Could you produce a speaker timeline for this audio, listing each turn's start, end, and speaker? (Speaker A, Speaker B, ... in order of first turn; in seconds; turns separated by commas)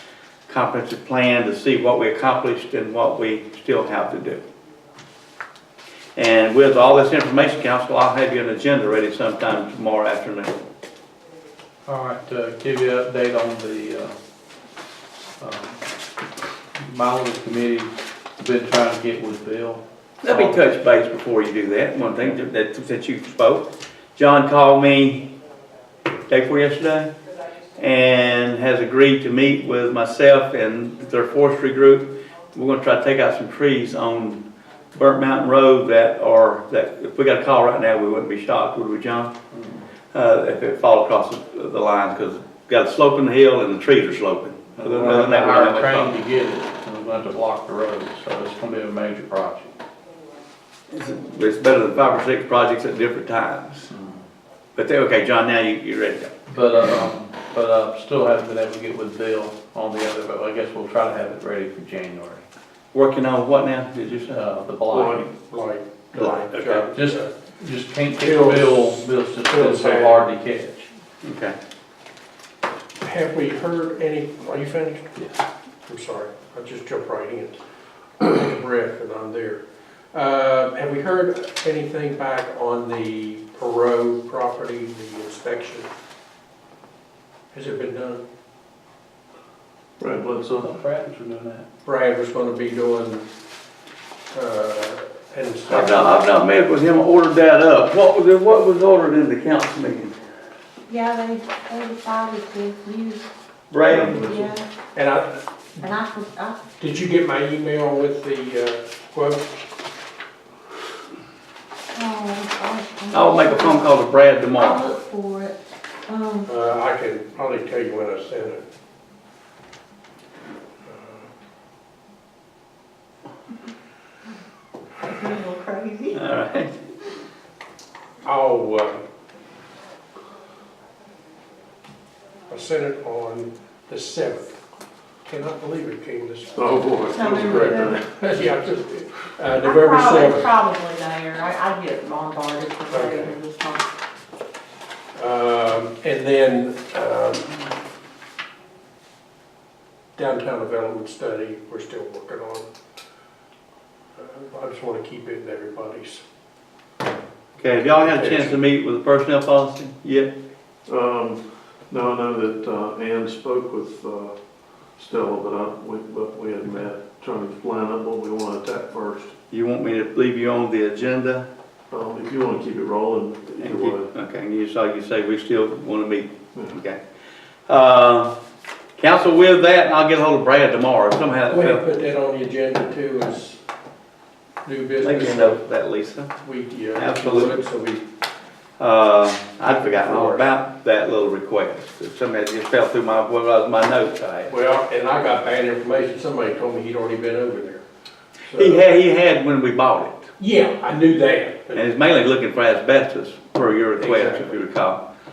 Speaker A: 0.5-4.4, Speaker A: 6.2-10.5, Speaker B: 11.8-14.1, Speaker B: 15.4-15.8, Speaker B: 16.8-20.6, Speaker A: 20.2-25.3, Speaker A: 26.3-27.1, Speaker A: 27.8-34.4, Speaker A: 34.9-39.3, Speaker B: 39.5-39.8, Speaker A: 40.1-46.1, Speaker B: 44.8-49.8, Speaker A: 50.9-53.9, Speaker B: 53.9-54.2, Speaker A: 54.8-56.4, Speaker B: 56.5-62.4, Speaker A: 62.9-64.4, Speaker B: 64.3-65.3, Speaker C: 64.9-67.3, Speaker A: 66.1-66.9, Speaker B: 66.9-70.9, Speaker C: 68.2-70.2, Speaker A: 71.2-71.5, Speaker C: 73.0-75.2, Speaker C: 75.9-77.6, Speaker C: 78.2-85.9, Speaker C: 87.5-88.2, Speaker D: 90.0-90.7, Speaker B: 90.6-91.7, Speaker C: 91.8-93.2, Speaker C: 94.3-96.2, Speaker A: 95.7-100.1, Speaker E: 100.9-103.3, Speaker A: 103.7-104.3, Speaker D: 103.9-104.5, Speaker E: 104.0-104.7, Speaker C: 104.9-105.9, Speaker E: 105.8-106.7, Speaker C: 106.8-109.5, Speaker E: 111.9-116.5, Speaker A: 113.1-114.9, Speaker C: 116.5-118.6, Speaker C: 120.8-121.3, Speaker E: 125.0-126.2, Speaker A: 126.1-126.8, Speaker C: 128.2-129.0, Speaker C: 132.5-134.6, Speaker C: 135.2-136.6, Speaker D: 136.5-138.0, Speaker E: 137.1-138.0, Speaker C: 137.6-140.5, Speaker E: 139.6-143.8, Speaker C: 142.9-143.4, Speaker C: 145.1-147.7, Speaker C: 150.2-152.7, Speaker C: 154.2-156.2, Speaker A: 157.6-160.3, Speaker C: 158.0-158.6, Speaker D: 160.9-164.4, Speaker D: 164.9-169.3, Speaker A: 169.5-171.4, Speaker D: 171.9-174.1, Speaker A: 173.5-177.0, Speaker A: 177.7-178.3, Speaker A: 179.0-181.9, Speaker C: 181.5-183.6, Speaker C: 184.6-185.6, Speaker A: 185.0-186.3, Speaker C: 186.4-188.1, Speaker A: 186.9-187.6, Speaker A: 188.8-194.5, Speaker C: 189.7-190.4, Speaker C: 194.5-197.8, Speaker C: 198.5-198.9, Speaker A: 198.5-200.3, Speaker C: 200.4-201.9, Speaker A: 201.7-205.0, Speaker C: 204.0-204.5